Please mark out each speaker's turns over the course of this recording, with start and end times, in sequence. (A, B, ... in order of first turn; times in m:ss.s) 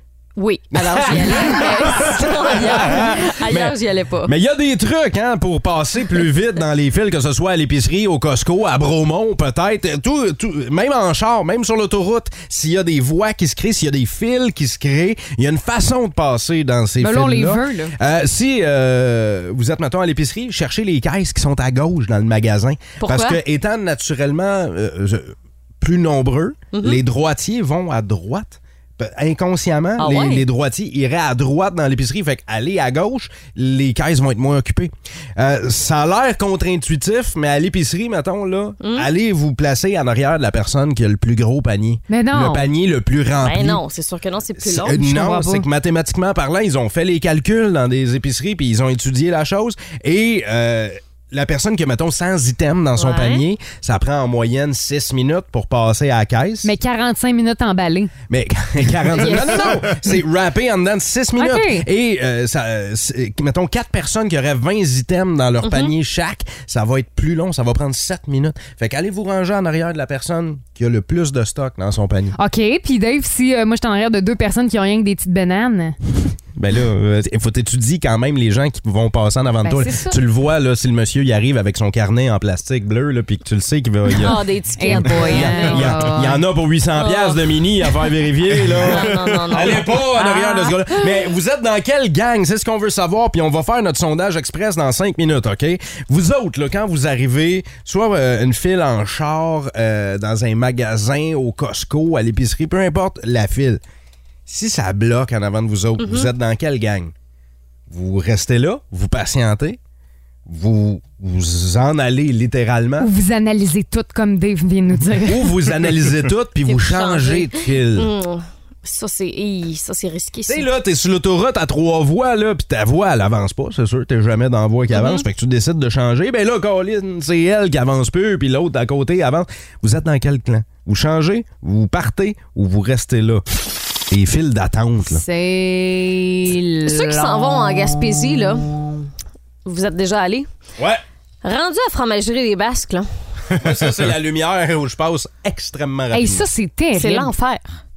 0:00.4-0:04.3 A
0:00.7-0:43.8 B
0:17.0-0:17.9 C
0:23.0-0:23.4 A
0:26.7-0:27.0 A
0:30.0-0:30.4 A
0:38.8-0:39.1 A
0:42.1-0:42.6 C
0:43.4-0:45.0 A
0:44.6-0:56.7 B
0:44.9-0:45.6 C
0:53.0-0:53.4 A
0:56.6-0:58.1 C
0:58.3-1:12.4 B
0:59.2-0:59.8 C
1:01.4-1:01.9 C
1:05.6-1:05.9 A
1:12.4-1:16.0 C
1:16.6-1:43.8 B
1:19.6-1:20.2 C
1:24.2-1:26.2 A
1:24.8-1:26.4 C
1:27.0-1:27.4 A
1:28.8-1:31.0 A
1:44.5-1:47.1 B
1:46.0-1:46.3 A
1:47.9-1:49.8 B
1:50.4-1:53.1 B
1:53.0-1:55.5 C
1:55.2-1:58.1 B
1:56.6-2:00.7 A
2:00.4-2:13.4 B
2:04.9-2:05.2 A
2:14.1-2:15.2 B
2:15.1-2:19.1 C
2:16.8-2:18.7 A
2:19.6-2:20.5 A
2:21.4-2:23.0 A
2:23.6-2:26.4 B
2:26.1-2:27.3 C
2:26.9-2:27.8 A